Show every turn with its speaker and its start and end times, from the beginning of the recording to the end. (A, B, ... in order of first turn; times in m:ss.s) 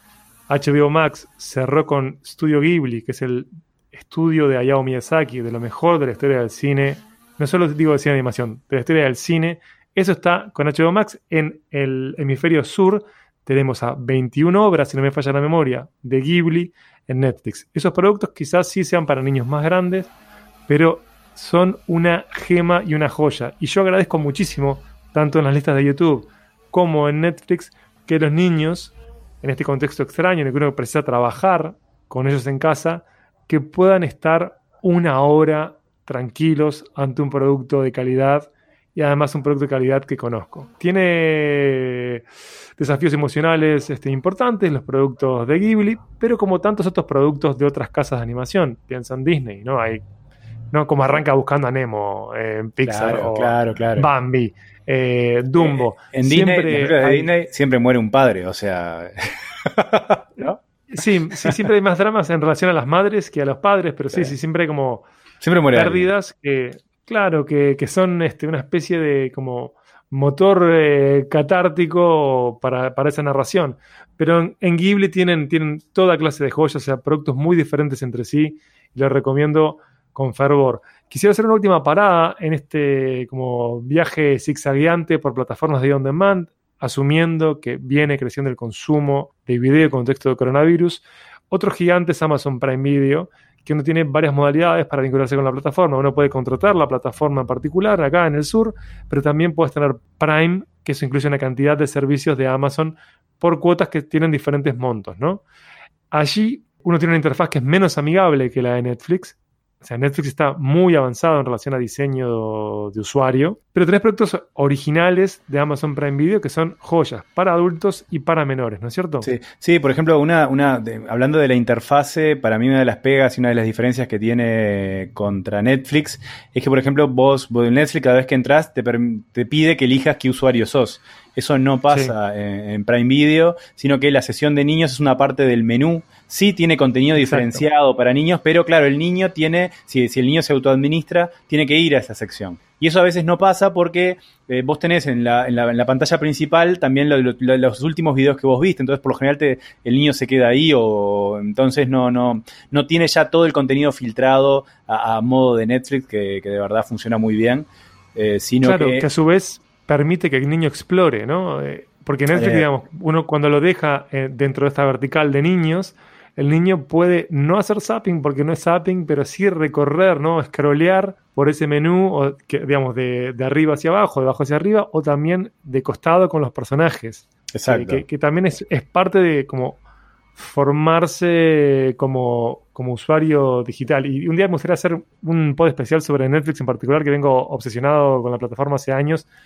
0:00.5-0:20.1 A
0:20.7-0:42.2 A
0:42.8-0:50.0 A
0:50.7-0:57.3 A
0:52.8-0:54.1 B
0:55.6-1:00.6 B
1:00.9-1:05.1 A
1:05.4-1:06.1 B
1:05.7-1:45.4 A
1:46.1-1:59.3 A
1:59.2-2:39.1 B
2:17.2-2:17.6 A
2:38.6-2:59.8 A
2:42.3-2:42.6 B
2:57.5-2:58.0 B
3:00.4-3:09.3 A